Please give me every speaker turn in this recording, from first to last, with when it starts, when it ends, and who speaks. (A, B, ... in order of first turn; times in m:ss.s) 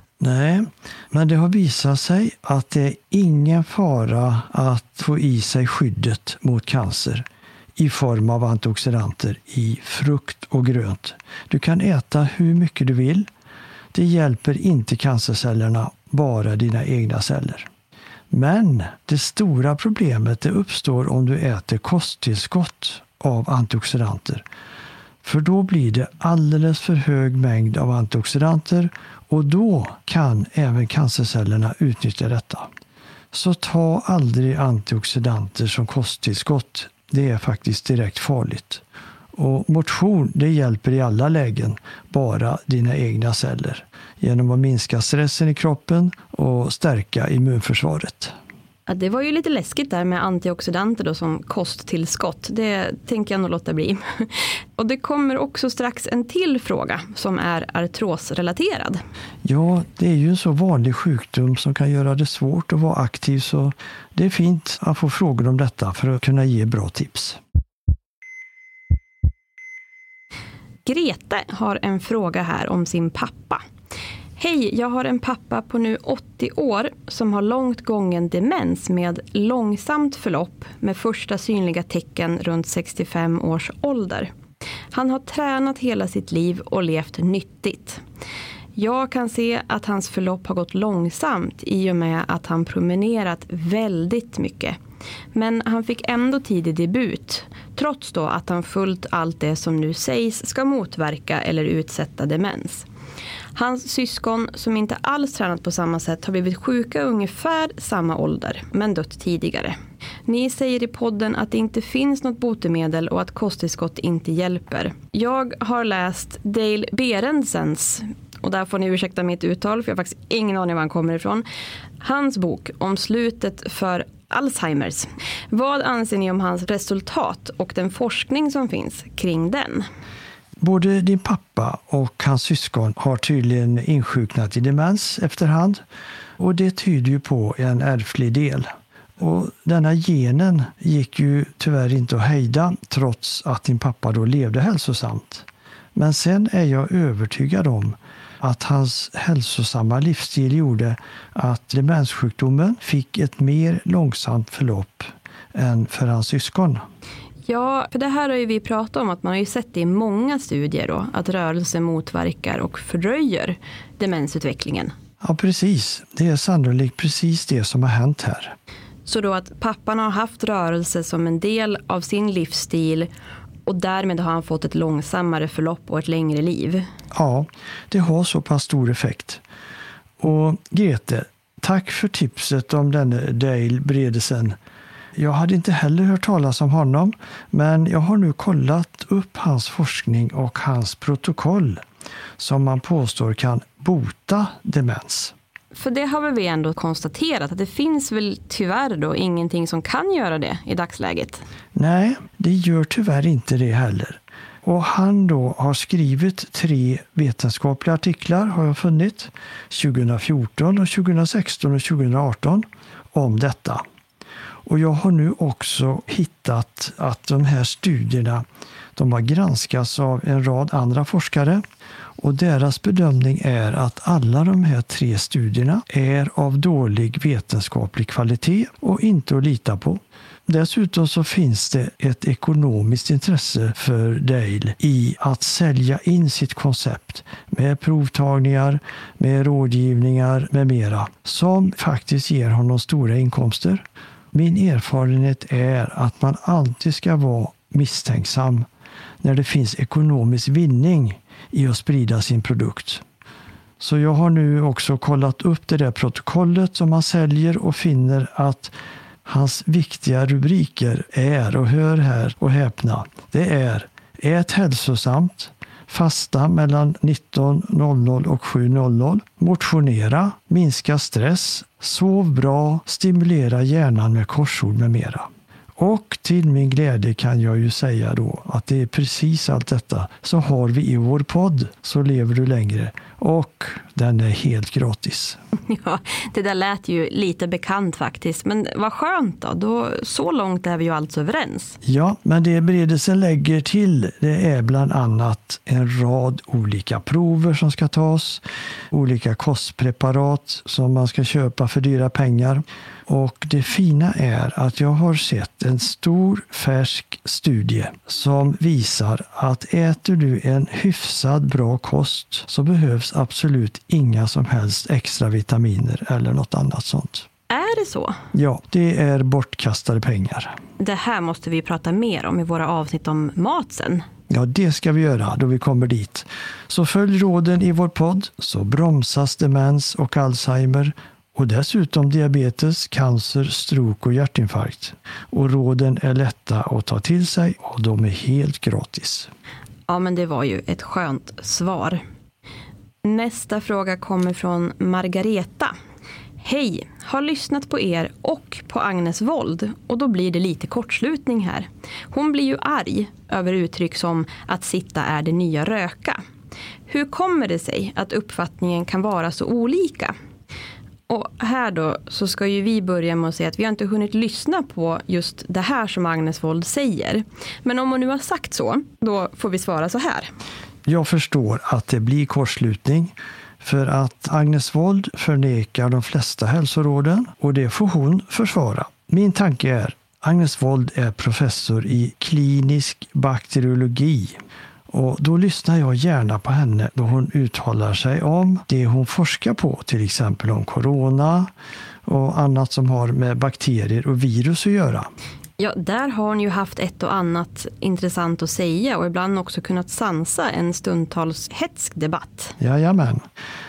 0:00.2-0:13.3 A
0:13.9-0:17.7 A
0:18.3-0:24.4 A
0:25.2-0:32.7 A
0:33.3-0:38.8 A
0:39.3-0:48.3 A
0:48.9-0:59.0 B
0:59.4-1:07.4 A
1:10.8-1:13.6 B
1:14.4-1:24.3 B
1:24.9-1:28.0 B
1:28.8-1:34.8 B
1:35.3-1:42.8 B
1:43.5-1:49.7 B
1:50.3-2:01.4 B
2:02.0-2:09.8 B
2:10.6-2:15.8 A
2:16.4-2:36.9 A
2:37.5-2:44.9 B
2:45.2-2:48.6 A
2:49.0-2:53.1 B
2:53.6-2:56.8 B
2:57.1-2:59.4 A
3:00.2-3:04.6 A
3:05.2-3:11.8 A
3:12.4-3:15.3 A
3:15.7-3:21.4 B
3:21.7-3:33.8 A
3:34.6-3:38.4 A
3:39.0-3:41.6 A
3:42.2-4:08.7 A
4:09.2-4:13.0 A
4:13.8-4:45.4 A
4:45.6-4:51.8 B
4:51.8-5:17.3 A
5:17.5-5:18.2 B
5:18.3-5:20.5 A
5:20.8-5:24.0 B
5:24.3-5:39.3 A
5:39.9-5:42.0 B
5:43.0-5:45.7 B
5:46.4-5:56.2 B
5:56.9-6:00.1 B
6:01.1-6:10.3 B
6:10.8-6:31.5 A
6:32.0-6:35.1 A
6:35.6-6:42.5 B
6:42.6-6:43.2 A